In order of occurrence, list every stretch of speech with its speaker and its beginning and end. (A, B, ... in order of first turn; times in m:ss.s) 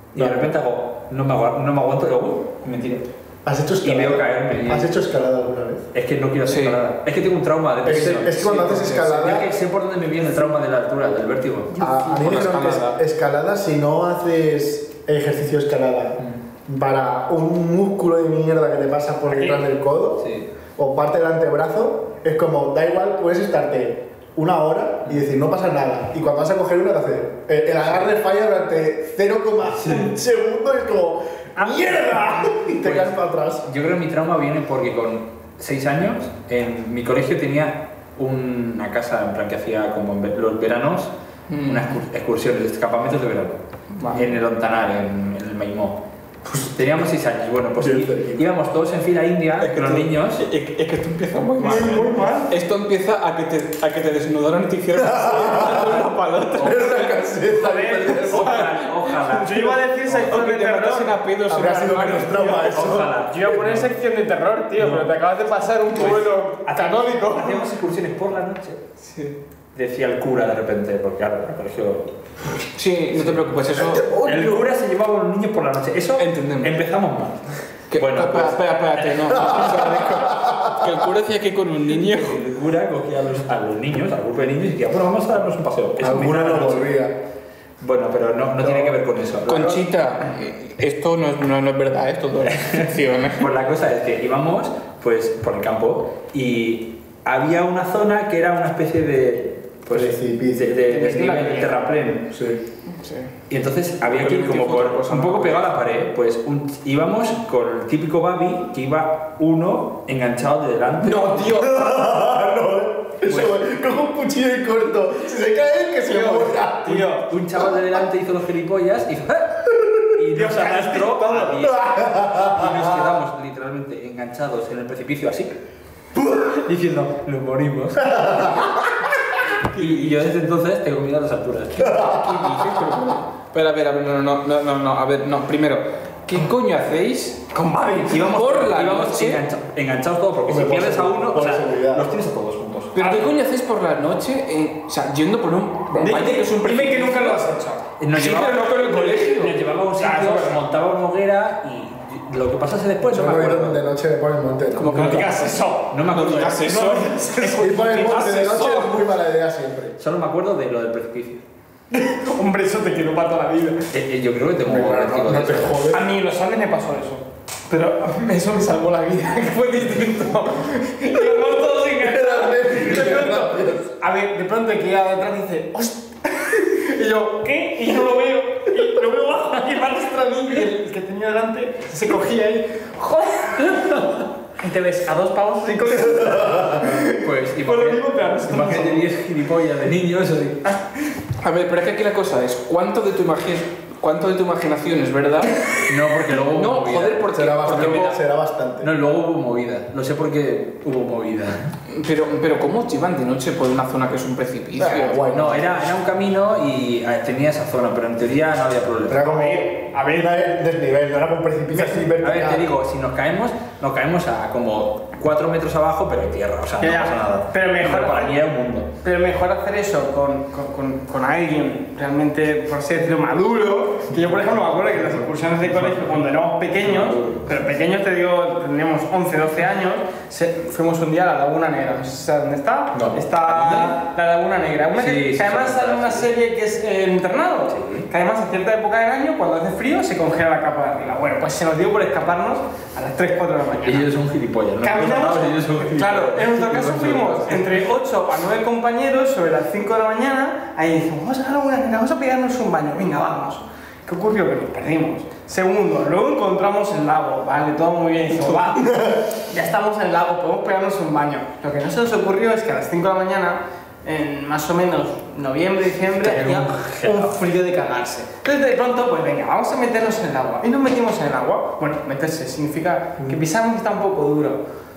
0:00.1-0:03.0 A
0:00.2-0:00.5 B
0:03.4-0:05.8 B
0:03.8-0:04.9 A
0:05.9-0:11.7 A
0:06.4-0:06.8 C
0:07.8-0:09.5 B
0:08.4-0:09.0 C
0:11.8-0:33.6 B
0:11.8-0:13.0 C
0:19.3-0:19.6 D
0:20.2-0:20.5 A
0:29.6-0:30.1 A
0:32.8-0:41.1 A
0:41.5-0:42.0 C
0:41.6-0:43.6 A
0:44.0-0:44.2 C
0:44.1-0:46.0 A
0:46.4-0:46.8 B
0:46.6-0:50.4 A
0:47.8-0:48.4 B
0:49.6-0:57.2 C
0:51.6-0:52.5 D
0:54.9-0:58.7 B
0:57.6-0:58.7 D
0:57.7-0:59.8 A
0:59.3-1:02.7 C
0:59.4-1:01.1 D
1:01.5-1:03.2 B
1:02.6-1:03.9 A
1:03.3-1:07.7 D
1:04.8-1:05.1 A
1:05.9-1:08.8 A
1:09.7-1:12.1 A
1:12.7-1:14.1 C
1:13.2-1:13.4 A
1:13.9-1:14.6 B
1:14.0-1:20.3 A
1:16.2-1:16.8 C
1:17.9-1:22.4 C
1:22.0-1:26.9 A
1:26.0-1:27.2 B
1:27.8-1:29.8 A
1:28.6-1:29.0 B
1:29.5-1:33.4 C
1:32.5-1:42.2 A
1:39.9-1:40.8 B
1:40.9-1:41.9 D
1:42.3-1:42.6 B
1:42.9-1:43.3 C
1:43.5-1:51.7 A
1:44.0-1:45.7 C
1:51.0-1:51.8 C
1:51.5-1:57.0 B
1:53.3-1:53.5 A
1:56.0-1:57.2 D
1:57.0-2:05.6 A
2:00.3-2:01.7 D
2:01.6-2:03.2 B
2:06.4-2:08.7 A
2:08.0-2:08.8 B
2:09.7-2:10.2 C
2:09.7-2:12.2 A
2:11.8-2:12.2 B
2:12.0-2:17.4 C
2:17.5-2:18.2 D
2:18.1-2:22.9 A
2:18.2-2:19.4 C
2:20.4-2:22.1 B
2:22.9-2:27.4 C
2:23.0-2:23.3 D
2:25.9-2:26.2 B
2:26.0-2:27.8 D
2:28.0-2:33.9 A
2:28.1-2:29.6 C
2:30.0-2:30.6 D
2:33.1-2:35.3 B
2:34.8-2:35.5 C
2:34.9-2:36.0 D
2:35.9-2:37.1 A
2:36.1-2:39.0 C
2:36.7-2:38.2 D
2:37.5-2:40.0 B
2:40.0-2:41.4 A
2:41.9-2:43.8 D
2:43.9-2:45.8 A
2:44.6-2:46.1 B
2:45.8-3:03.9 D
2:52.0-2:53.8 B
3:03.8-3:04.0 A
3:04.6-3:09.0 D
3:07.0-3:10.6 A
3:11.4-3:15.6 C
3:15.8-3:18.0 A
3:16.5-3:18.2 C
3:17.3-3:18.9 B
3:18.8-3:21.8 A
3:21.9-3:25.4 C
3:24.8-3:25.8 B
3:25.1-3:29.3 A
3:29.1-3:32.7 B
3:29.2-3:30.4 D
3:31.7-3:32.0 D
3:32.2-3:38.9 A
3:36.8-3:38.4 D
3:39.0-4:04.1 D
3:45.6-3:46.3 A
3:46.8-3:47.6 A
3:53.4-3:54.0 A
3:55.0-3:56.3 A
3:57.7-3:58.1 A
4:03.8-4:07.8 A
4:04.8-4:34.6 D
4:18.9-4:19.2 B
4:26.2-4:27.4 A